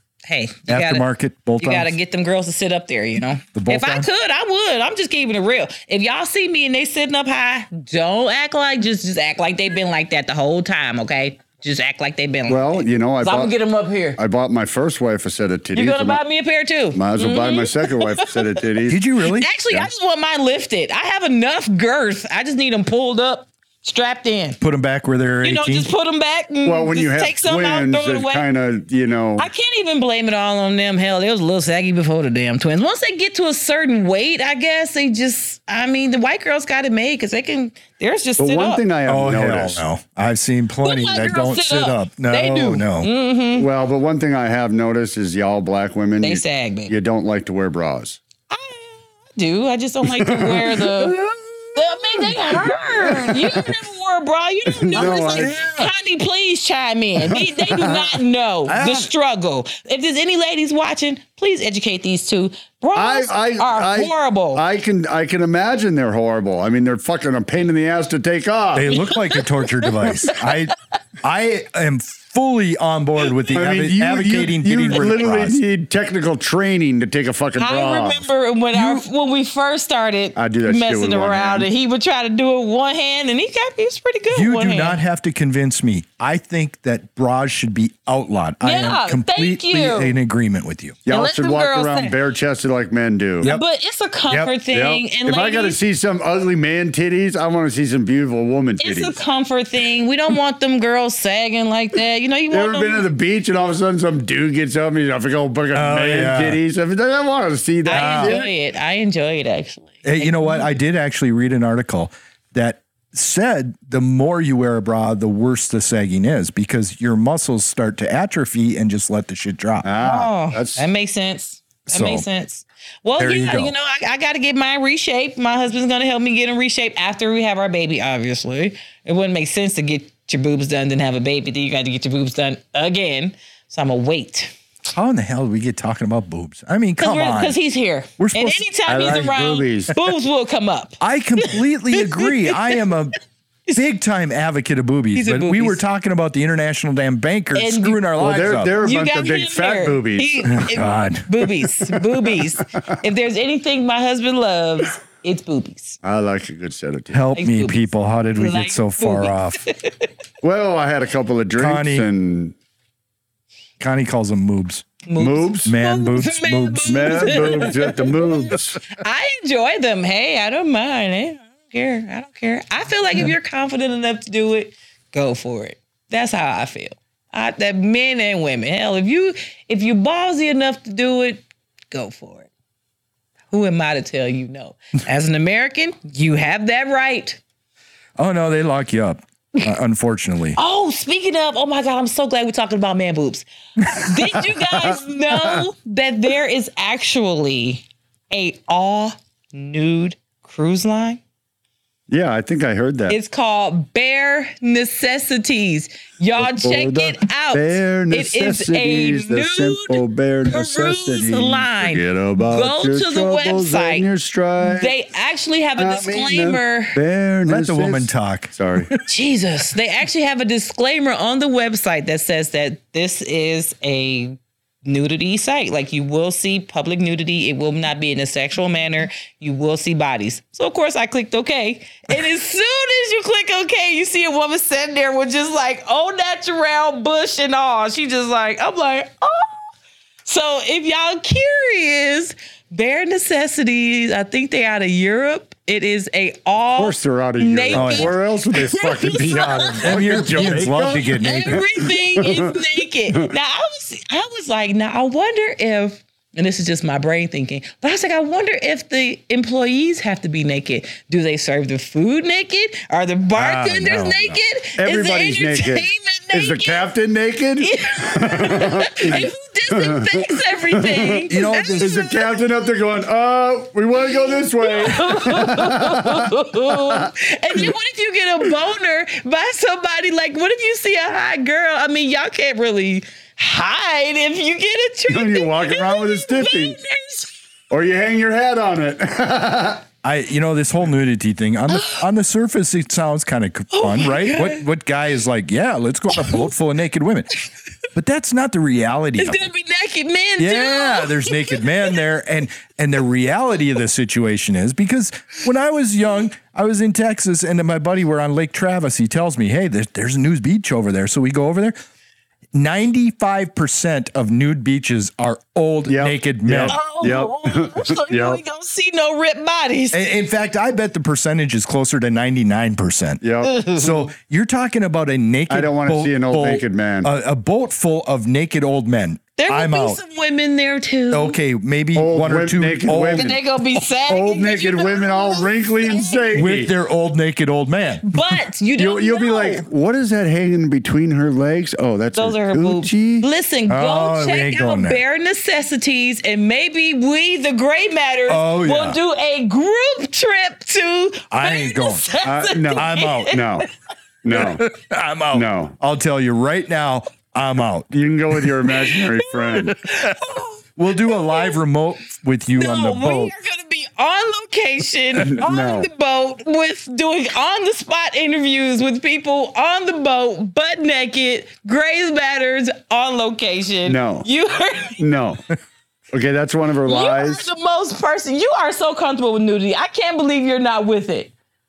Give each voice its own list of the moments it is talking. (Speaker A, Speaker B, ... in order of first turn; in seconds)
Speaker A: 0.2-1.0, 1.6-14.2, 15.7-18.3, 19.3-24.6, 25.4-28.4, 29.4-38.8, 40.8-43.7, 46.2-46.9, 48.5-51.2, 51.7-64.6, 68.9-70.5, 77.6-85.0, 88.6-90.1, 91.1-92.1, 93.4-95.8, 98.8-103.0, 107.8-110.7, 120.0-134.5, 137.0-142.6, 145.1-145.8, 147.5-148.0, 148.8-156.0, 157.3-160.1, 165.1-182.5, 183.5-187.4, 190.6-201.2, 203.1-214.1, 214.6-217.0, 219.0-239.7, 240.2-266.9, 267.6-272.3, 274.1-287.3, 291.7-292.0, 293.7-294.6, 296.1-296.4, 299.2-302.0, 316.7-320.0, 323.4-323.8, 329.4-331.4, 333.1-336.3, 338.0-339.6, 342.1-353.6, 359.4-361.5, 362.5-375.0, 376.8-381.3
Speaker B: 0.7-1.9, 3.5-4.1, 18.9-19.5, 24.6-25.9, 39.0-43.1, 54.9-55.9, 58.7-59.1, 68.7-75.6, 78.7-79.0, 84.3-91.0, 105.7-106.6, 107.9-108.4, 110.0-119.9, 121.9-122.2, 123.2-123.7, 134.9-137.6, 138.2-138.6, 141.0-143.2, 143.7-148.8, 150.5-151.3, 157.1-159.6, 161.6-162.1, 163.8-164.9, 165.6-167.7, 188.2-190.6, 217.5-219.0, 247.7-248.1, 249.8-251.6, 263.3-264.4, 271.3-272.0, 290.0-297.3, 297.9-299.5, 300.4-311.8, 312.5-316.8, 319.9-330.0, 331.1-333.3, 336.3-338.4, 343.7-345.0, 348.3-349.0, 351.3-352.1, 352.7-353.4, 354.3-358.9, 359.5-360.2, 360.8-363.3
Speaker C: 12.5-13.5, 14.2-16.2, 16.9-19.0, 26.6-29.5, 38.4-39.8, 43.5-48.2, 50.1-51.7, 52.2-53.6, 54.7-55.6, 57.3-58.1, 62.9-69.0, 73.5-78.3, 80.3-81.7, 91.0-93.5, 94.7-99.2, 102.5-108.5, 119.8-120.8, 138.8-140.0, 148.2-150.7, 151.9-152.4, 156.0-157.2, 160.4-162.5, 165.2-165.7, 166.8-168.8, 194.3-195.6, 202.1-203.2, 206.4-214.9, 215.8-218.9, 246.7-252.6, 264.8-277.1, 285.1-286.8, 287.7-289.8, 315.9-318.4, 323.2-323.7, 325.5-327.1, 331.9-333.4, 334.1-336.7, 338.8-343.3, 352.2-353.7, 354.2-354.7, 355.3-355.7, 357.9-359.8, 365.2-365.9, 373.9-374.3, 375.0-375.5, 376.1-377.5